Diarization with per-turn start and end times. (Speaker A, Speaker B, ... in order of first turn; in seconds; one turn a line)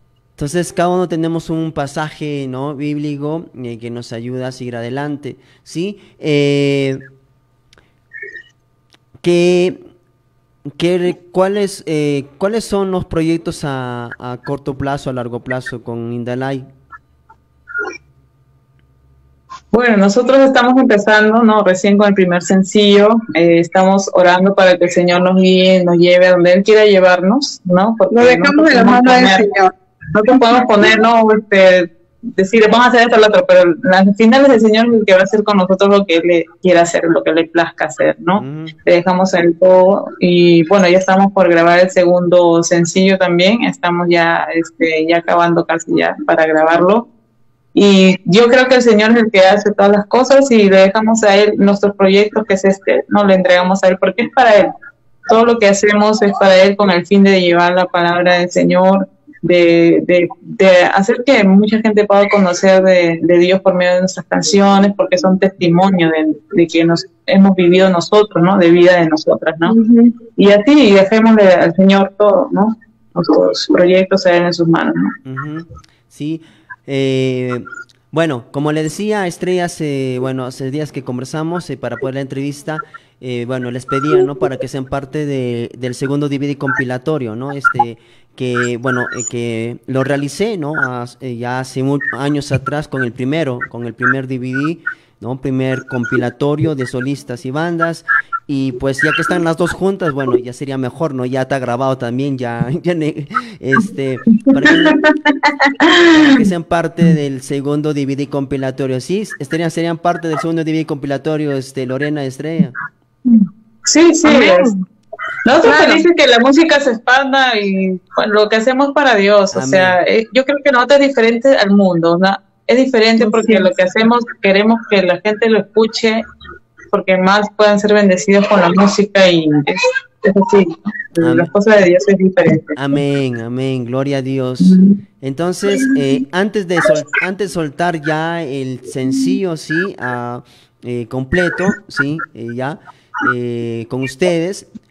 Speaker A: 0.4-7.0
Speaker A: 9.2-9.8
Speaker A: 10.8-16.7
Speaker B: 19.7-29.4
Speaker C: 28.1-29.7
Speaker B: 30.1-47.1
Speaker A: 38.4-38.8
Speaker B: 47.7-54.7
Speaker B: 55.3-69.7
Speaker C: 69.7-70.1
Speaker B: 70.3-75.1
Speaker A: 75.2-105.0
Speaker B: 104.4-106.5
Speaker A: 106.1-112.8
Speaker B: 113.2-114.7
Speaker C: 114.2-114.8
Speaker B: 115.4-126.2
Speaker C: 115.6-116.1
Speaker A: 119.5-120.0
Speaker C: 123.2-123.7
Speaker B: 126.9-132.8
Speaker A: 131.2-131.5
Speaker A: 132.7-144.7
Speaker B: 134.6-135.0